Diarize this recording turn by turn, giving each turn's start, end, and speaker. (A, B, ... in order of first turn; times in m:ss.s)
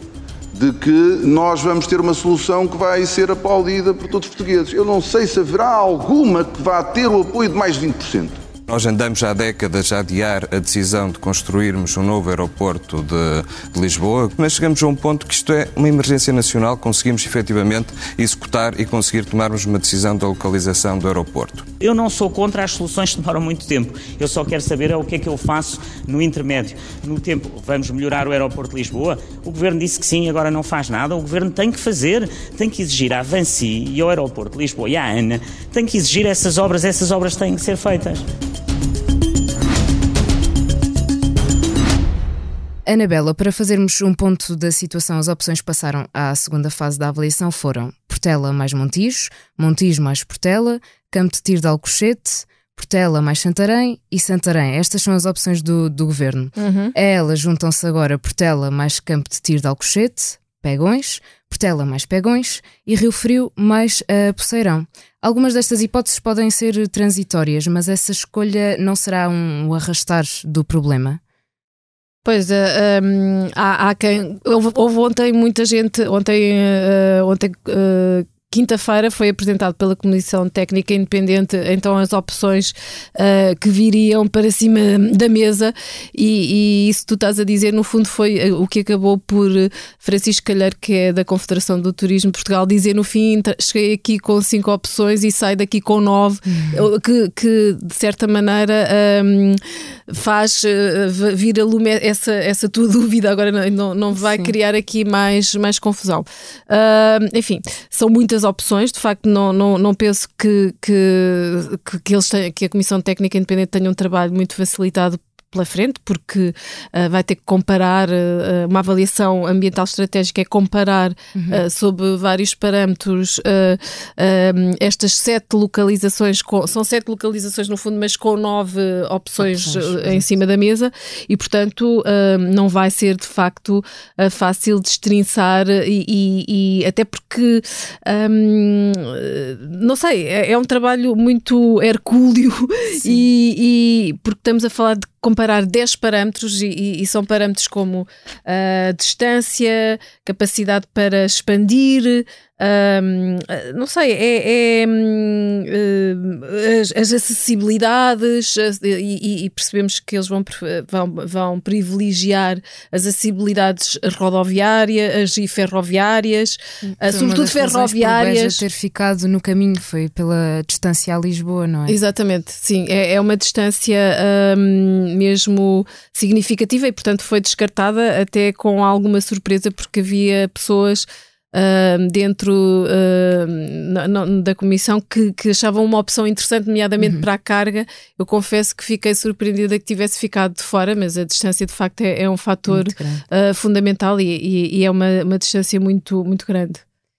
0:00.6-0:08.4 A
0:08.7-0:21.6 B
0:21.8-0:38.2 C
0:42.9-1:11.2 D
0:56.6-0:56.9 E
1:12.2-2:48.6 E
1:36.5-1:36.9 D
1:44.2-1:44.5 D
2:01.4-2:01.6 D
2:09.4-2:10.2 D
2:46.9-2:52.0 D
2:51.9-3:16.8 E
3:07.0-3:07.2 D
3:12.7-3:13.2 D